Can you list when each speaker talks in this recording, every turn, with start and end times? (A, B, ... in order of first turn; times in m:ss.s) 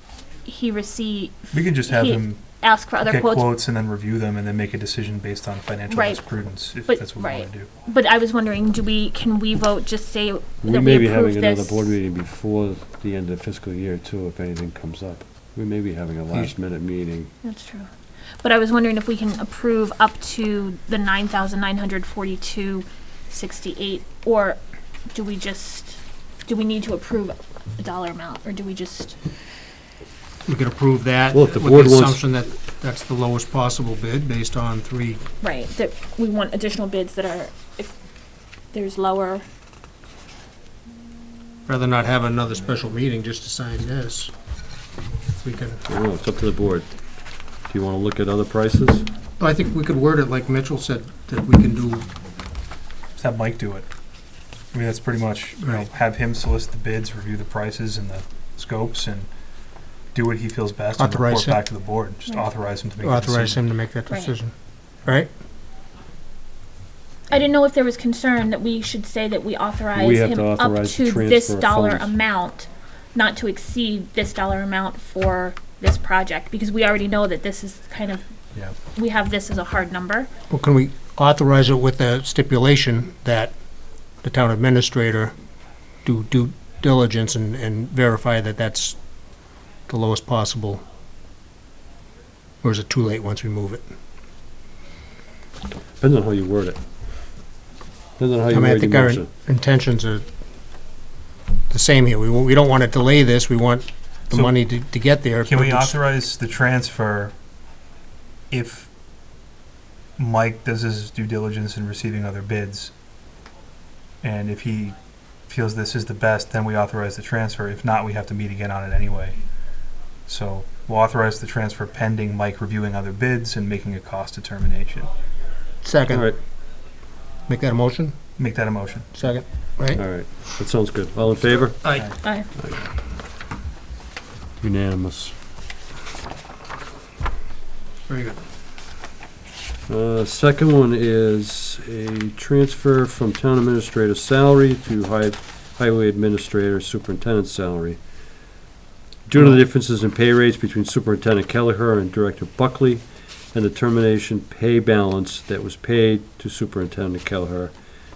0:00.4-0:03.5 A
0:01.5-0:02.4 B
0:03.0-0:07.7 B
0:05.9-0:06.2 A
0:06.8-0:12.0 A
0:10.6-0:17.3 C
0:17.4-0:17.9 A
0:18.4-0:24.6 A
0:25.1-0:29.2 A
0:30.4-0:35.2 D
0:31.3-0:32.2 C
0:35.4-0:38.0 A
0:38.7-0:39.4 A
0:41.7-0:44.3 D
0:45.4-0:45.8 D
0:45.9-0:47.1 C
0:47.7-0:49.1 C
0:49.4-0:52.1 D
0:53.2-0:53.9 B
0:54.7-0:59.3 B
0:55.6-0:55.9 D
1:00.1-1:03.6 B
1:00.9-1:01.6 D
1:03.0-1:04.5 D
1:05.0-1:05.3 D
1:07.3-1:18.2 A
1:10.0-1:12.1 C
1:19.0-1:20.3 A
1:20.5-1:23.6 D
1:24.2-1:25.4 D
1:26.0-1:29.0 D
1:29.9-1:30.8 D
1:32.6-1:33.8 D
1:36.0-1:36.8 C
1:38.2-1:39.3 C
1:38.5-1:40.3 D
1:41.7-1:46.0 D
1:45.4-1:47.3 B
1:48.5-1:48.9 B
1:50.2-1:52.9 B
1:54.2-1:59.4 B
2:00.3-2:05.1 B
2:05.8-2:06.3 D
2:06.1-2:06.4 C
2:07.5-2:08.2 D
2:08.4-2:09.1 B
2:09.1-2:10.0 D
2:09.9-2:11.8 C
2:11.8-2:12.2 D
2:12.2-2:12.5 A
2:12.6-2:12.8 C
2:14.6-2:15.4 C
2:18.1-2:18.4 D
2:19.9-2:28.0 C
2:29.3-2:37.7 C